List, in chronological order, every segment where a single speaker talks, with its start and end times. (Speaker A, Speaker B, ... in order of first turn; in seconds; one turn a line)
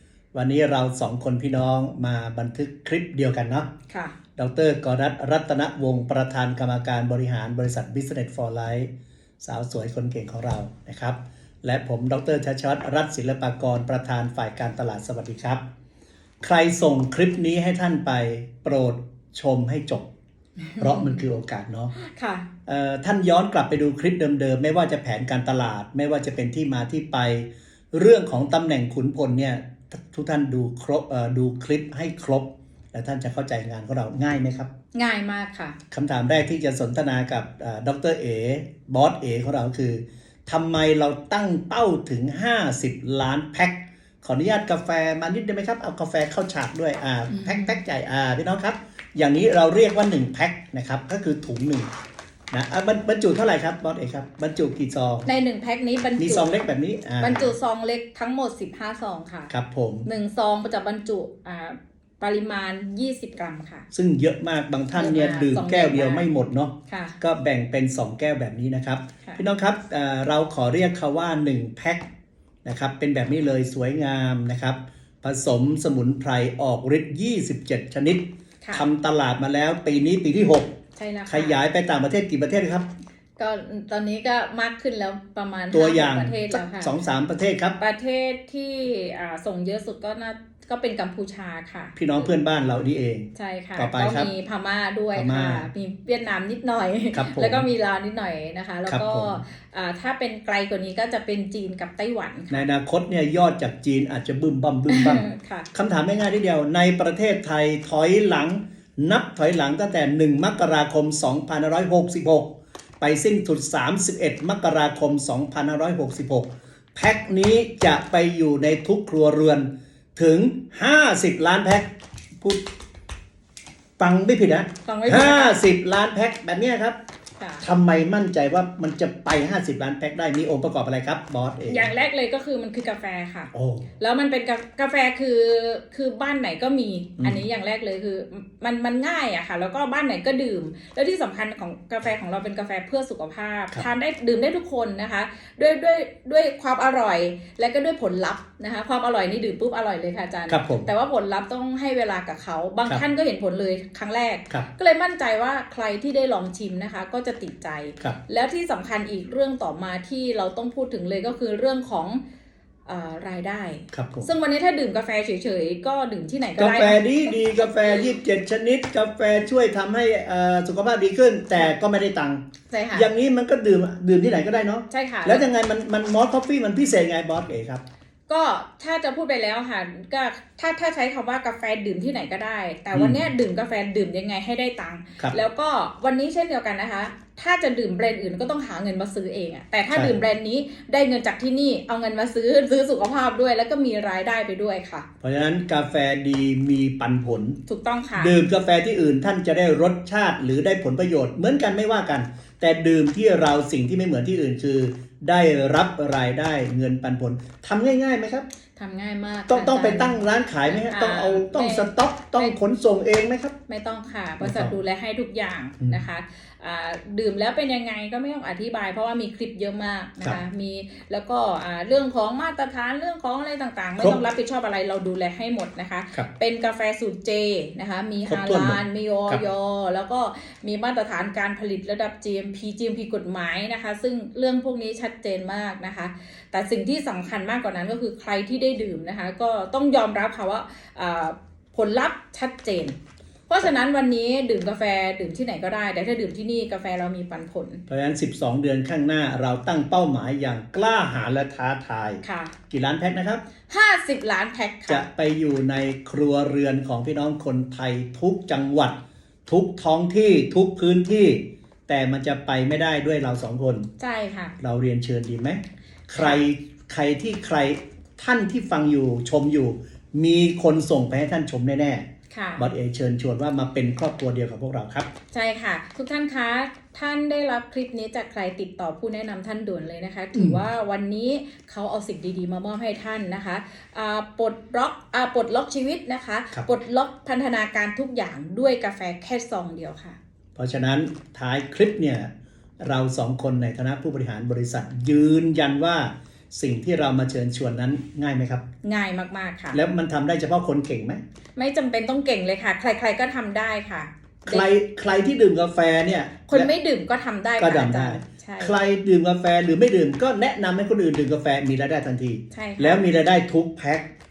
Speaker A: 0.3-3.7
Speaker B: 3.9-4.1
Speaker A: 4.4-15.6
Speaker A: 16.4-20.1
Speaker B: 20.6-21.2
Speaker A: 20.8-21.9
Speaker B: 21.9-22.5
Speaker A: 22.7-34.7
Speaker B: 34.9-35.8
Speaker A: 35.9-51.9
Speaker B: 47.3-47.8
Speaker A: 52.5-55.3
Speaker B: 55.2-56.5
Speaker A: 56.2-57.5
Speaker B: 57.2-59.5
Speaker A: 59.5-60.1
Speaker B: 60.0-63.9
Speaker A: 63.9-72.0
Speaker B: 65.0-66.2
Speaker B: 66.9-67.2
Speaker A: 72.6-80.7
Speaker B: 81.0-81.6
Speaker A: 81.3-82.9
Speaker B: 83.4-86.9
Speaker A: 85.7-87.8
Speaker B: 87.8-92.0
Speaker A: 92.0-94.3
Speaker B: 93.3-102.7
Speaker A: 95.1-95.7
Speaker A: 97.1-97.6
Speaker A: 98.9-99.4
Speaker A: 102.5-122.6
Speaker B: 104.9-105.7
Speaker A: 124.0-127.0
Speaker B: 124.8-125.6
Speaker B: 127.4-127.7
Speaker A: 127.6-131.9
Speaker B: 131.7-162.2
Speaker A: 133.5-133.9
Speaker A: 150.5-150.9
Speaker B: 162.8-168.1
Speaker A: 163.9-164.3
Speaker A: 166.6-177.8
Speaker B: 172.7-173.1
Speaker B: 174.9-175.5
Speaker B: 178.3-195.1
Speaker A: 182.9-183.2
Speaker A: 189.9-190.2
Speaker A: 195.2-197.6
Speaker B: 197.7-198.3
Speaker A: 198.2-208.4
Speaker B: 208.8-212.5
Speaker A: 209.5-213.6
Speaker B: 213.7-243.0
Speaker A: 214.4-214.8
Speaker A: 228.3-229.4
Speaker B: 243.5-247.8
Speaker A: 247.9-253.4
Speaker B: 252.2-252.5
Speaker B: 253.7-255.1
Speaker A: 254.9-263.9
Speaker B: 264.0-264.6
Speaker A: 264.6-272.1
Speaker B: 272.3-272.6
Speaker A: 272.6-275.1
Speaker B: 275.3-290.2
Speaker A: 280.3-280.6
Speaker A: 290.6-292.3
Speaker A: 292.8-298.6
Speaker B: 298.8-299.8
Speaker A: 299.7-301.2
Speaker B: 301.6-304.7
Speaker A: 304.5-306.7
Speaker B: 306.5-308.8
Speaker A: 307.6-314.1
Speaker B: 312.5-313.0